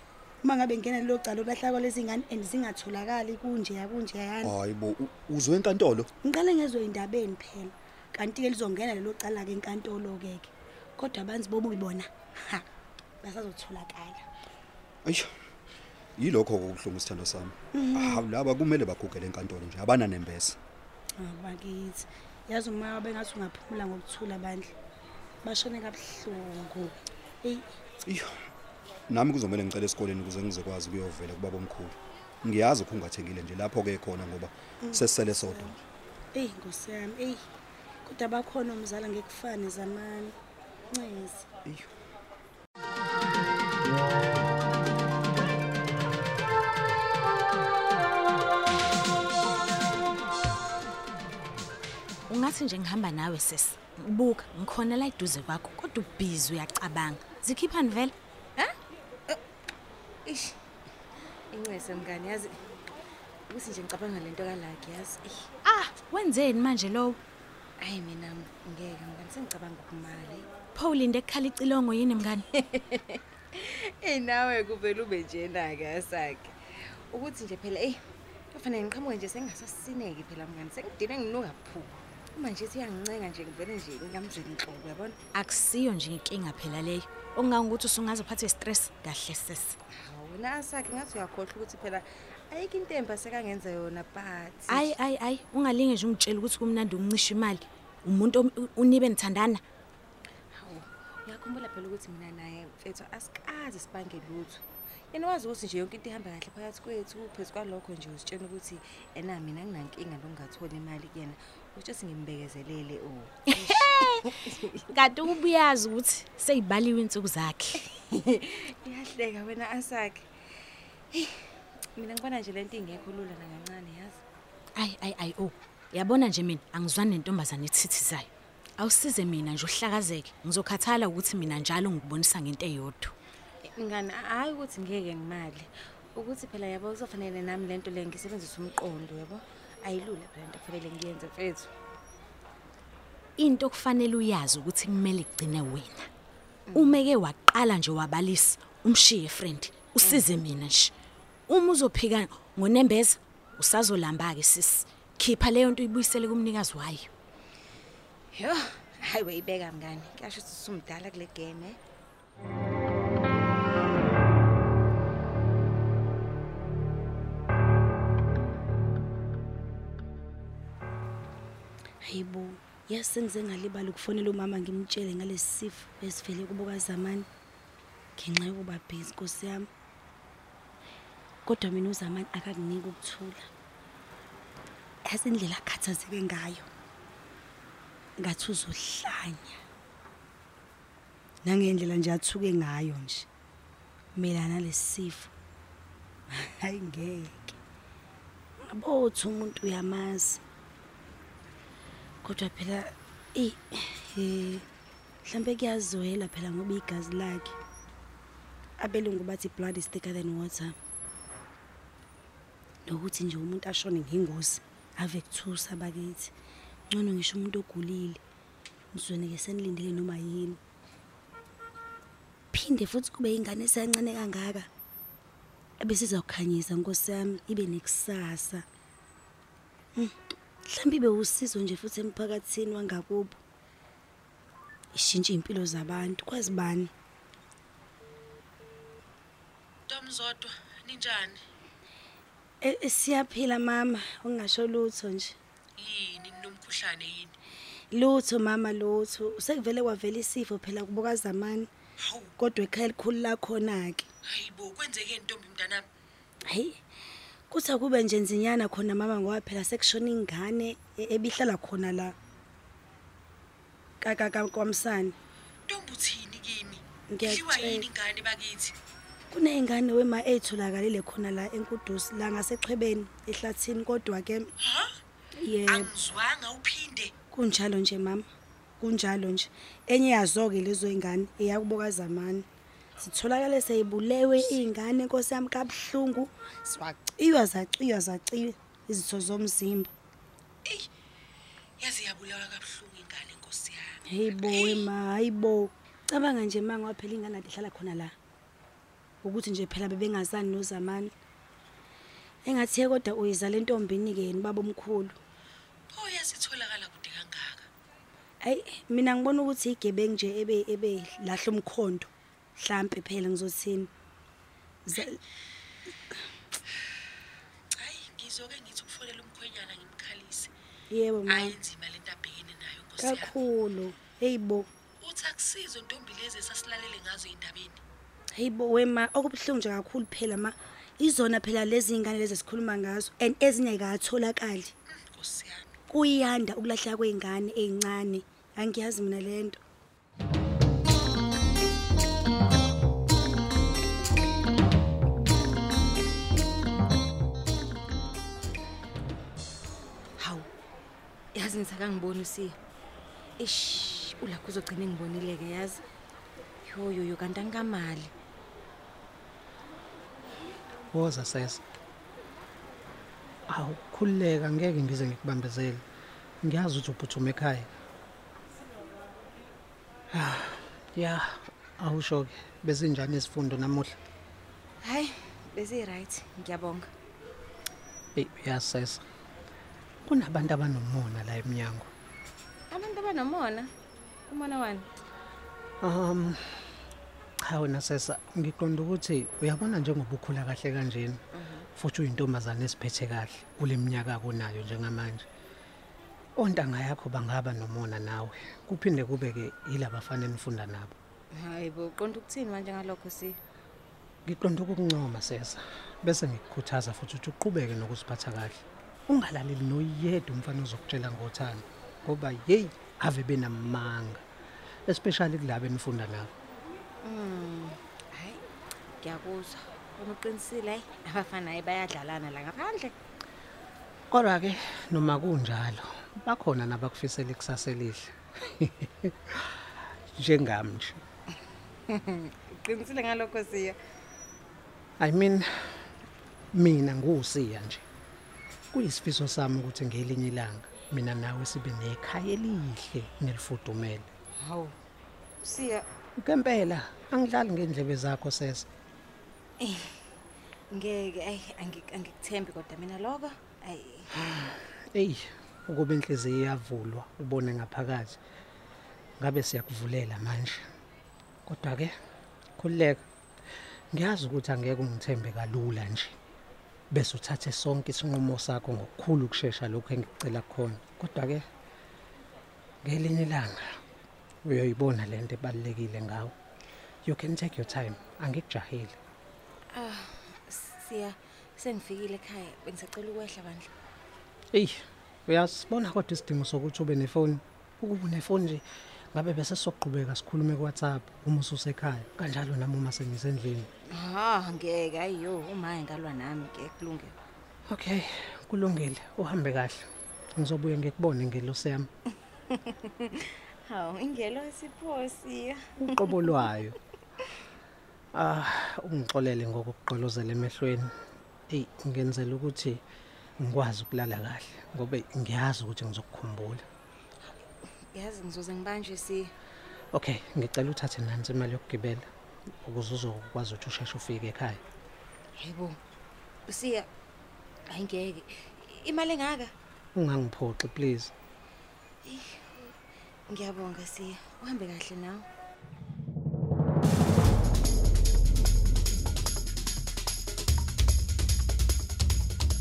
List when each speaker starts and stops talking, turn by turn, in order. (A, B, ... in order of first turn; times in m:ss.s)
0:00.4-0:04.5 A
0:04.4-0:06.1 B
0:06.2-0:12.6 A
0:13.2-0:14.2 A
0:15.0-0:15.3 B
0:16.2-0:20.6 B
0:17.7-0:18.2 A
0:21.2-0:24.7 A
0:25.4-0:27.6 A
0:28.0-0:28.3 B
0:29.1-0:35.8 B
0:34.8-0:35.6 A
0:36.3-0:37.4 A
0:38.0-0:40.3 A
0:40.9-0:41.5 A
0:52.3-0:58.1 C
1:00.2-1:00.6 D
1:01.5-1:02.5 D
1:03.5-1:05.5 D
1:05.6-1:07.2 C
1:07.8-1:10.5 D
1:10.7-1:12.4 C
1:12.5-1:18.0 D
1:18.5-1:25.2 D
1:25.3-1:29.8 C
1:29.9-1:34.9 D
1:34.7-1:39.6 C
1:40.5-1:54.8 D
1:53.5-1:57.8 C
1:57.9-2:00.3 D
2:02.0-2:04.2 D
2:04.8-2:13.1 C
2:13.6-2:21.7 D
2:23.4-2:26.1 C
2:26.7-2:27.0 D
2:26.7-2:30.9 C
2:31.5-2:37.1 C
2:38.3-2:41.8 D
2:52.0-2:57.2 A
2:58.2-2:59.7 A
3:01.4-3:03.5 A
3:05.1-3:06.7 A
3:08.2-3:09.6 A
3:11.4-3:13.3 A
3:14.2-3:15.3 A
3:16.3-3:17.6 A
3:18.7-3:20.4 A
3:22.2-3:24.6 A
3:25.2-3:27.6 A
3:28.8-3:30.8 A
3:32.8-3:36.3 A
3:36.9-3:38.2 A
3:38.9-3:40.6 A
3:42.5-3:44.7 A
3:45.8-3:48.6 A
3:50.7-3:53.4 A
3:54.9-3:56.9 A
3:59.9-4:01.4 E
4:02.6-4:05.4 A
4:05.8-4:07.3 E
4:07.9-4:11.7 A
4:12.0-4:12.3 E
4:12.4-4:14.1 A
4:14.2-4:15.8 E
4:16.5-4:16.8 A
4:17.5-4:22.1 A
4:24.0-4:25.1 A
4:25.7-4:28.7 E
4:27.1-4:27.9 A
4:29.3-4:34.5 A
4:34.6-4:34.9 E
4:35.4-4:35.9 A
4:35.7-4:37.1 E
4:37.3-4:38.2 A
4:38.8-4:42.4 A
4:43.0-4:49.9 A
4:51.8-4:54.8 E
4:54.1-4:58.1 A
4:59.2-5:01.1 A
5:02.4-5:05.2 A
5:05.9-5:07.7 E
5:08.4-5:13.9 A
5:14.8-5:15.2 A
5:17.8-5:20.5 E
5:20.9-5:21.6 A
5:21.2-5:23.3 E
5:23.0-5:24.7 A
5:25.0-5:27.8 E
5:28.4-5:34.7 A
5:35.0-5:35.8 E
5:35.9-5:39.6 A
5:50.2-5:50.5 D
5:51.3-5:52.6 D
5:53.4-5:55.8 D
5:56.6-5:58.1 D
6:00.9-6:01.6 F
6:03.5-6:05.8 F
6:06.4-6:07.7 F
6:10.1-6:14.0 F
6:14.8-6:16.9 D
6:18.2-6:19.0 F
6:20.0-6:21.9 F
6:22.7-6:23.7 D
6:24.3-6:24.8 D
6:25.8-6:26.8 F
6:27.4-6:31.2 F
6:31.3-6:31.7 D
6:31.8-6:35.2 F
6:36.4-6:40.9 F
6:41.3-6:43.4 D
6:44.2-6:54.2 F
6:54.9-6:56.3 F
6:57.0-6:58.4 D
6:59.0-7:02.9 D
7:04.1-7:11.0 F
7:11.9-7:13.8 D
7:15.0-7:15.5 F
7:16.5-7:17.8 F
7:18.7-7:24.1 F
7:24.4-7:24.7 D
7:25.4-7:25.8 D
7:26.2-7:28.7 F
7:29.6-7:29.9 D
7:30.7-7:34.5 D
7:34.3-7:38.2 F
7:39.2-7:40.7 F
7:41.4-7:41.9 F
7:42.6-7:43.0 F
7:43.9-7:46.2 F
7:46.9-7:51.5 F
7:52.8-7:53.8 F
7:54.4-7:56.3 F
7:57.0-7:59.0 F
7:59.7-8:03.7 D
8:04.5-8:13.7 F
8:13.9-8:17.2 D
8:17.7-8:21.9 F
8:22.5-8:26.4 D
8:25.8-8:26.8 F
8:28.1-8:30.9 F
8:31.5-8:32.8 F
8:33.4-8:36.6 F
8:37.9-8:39.3 D
8:39.9-8:42.1 F
8:42.6-8:44.6 F
8:45.4-8:45.8 D
8:46.5-8:46.9 D
8:47.7-8:49.5 D
8:50.0-8:51.1 F
8:52.0-8:52.7 D
8:53.3-8:55.3 D